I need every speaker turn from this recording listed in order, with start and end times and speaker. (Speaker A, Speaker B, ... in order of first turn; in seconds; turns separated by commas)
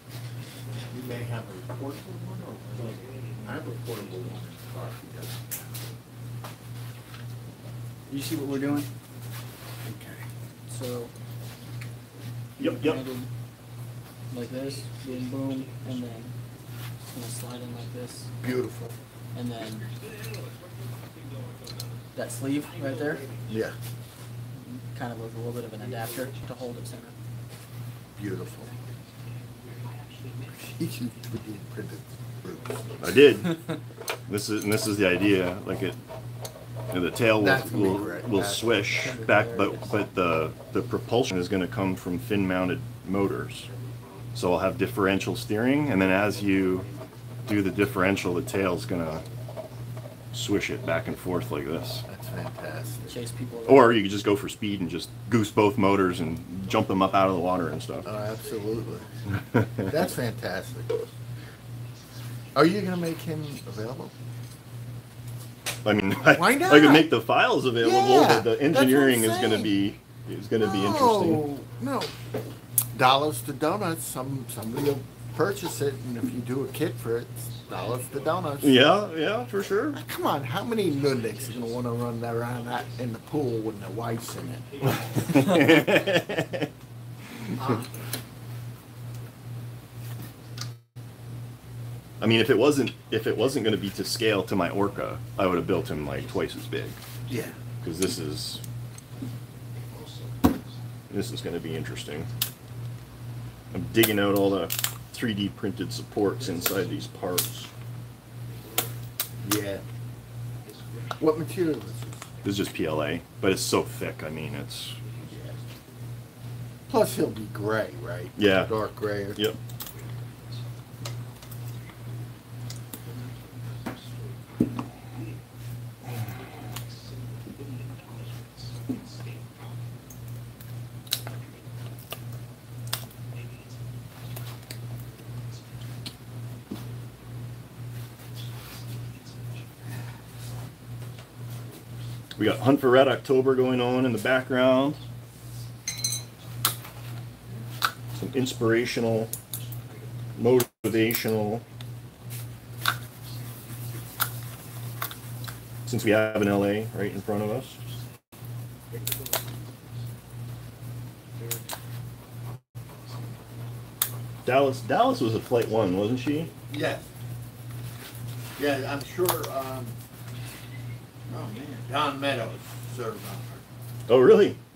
Speaker A: 0.8-5.7, Speaker B: 8.1-8.9, Speaker A: 9.8-10.2, Speaker B: 10.7-11.1, Speaker C: 12.6-13.0, Speaker B: 12.7-13.3, Speaker B: 14.3-16.3, Speaker B: 17.0-18.3, Speaker A: 18.4-18.9, Speaker B: 19.3-19.9, Speaker B: 22.1-23.3, Speaker A: 23.5-23.8, Speaker B: 24.6-27.1, Speaker A: 28.2-28.7, Speaker A: 30.6-33.0, Speaker C: 33.0-33.6, Speaker C: 34.3-36.0, Speaker C: 36.9-43.7, Speaker A: 37.3-38.8, Speaker B: 39.0-39.9, Speaker C: 44.4-46.9, Speaker C: 47.5-49.2, Speaker C: 50.3-52.0, Speaker A: 52.1-53.1, Speaker B: 53.1-54.0, Speaker C: 53.6-58.1, Speaker A: 58.0-59.1, Speaker C: 59.4-59.9, Speaker A: 59.8-60.9, Speaker A: 62.5-64.1, Speaker C: 65.8-71.5, Speaker A: 66.2-67.1, Speaker A: 67.8-69.7, Speaker A: 70.6-72.1, Speaker A: 72.9-78.8, Speaker C: 78.6-80.0, Speaker A: 79.9-85.2, Speaker C: 85.2-86.7, Speaker A: 87.5-87.9, Speaker C: 92.2-97.0, Speaker A: 97.3-97.6, Speaker C: 97.8-98.6, Speaker C: 101.1-102.3, Speaker C: 103.7-107.7, Speaker A: 109.4-109.8, Speaker A: 111.2-112.3, Speaker C: 112.4-115.0, Speaker A: 115.2-115.6, Speaker A: 116.9-119.4, Speaker C: 118.4-118.7, Speaker C: 142.4-145.0, Speaker C: 148.2-149.3, Speaker C: 150.4-151.7, Speaker C: 155.9-157.8, Speaker C: 164.4-166.5, Speaker A: 166.7-167.1, Speaker A: 168.6-170.0, Speaker A: 171.3-173.7, Speaker C: 174.1-174.6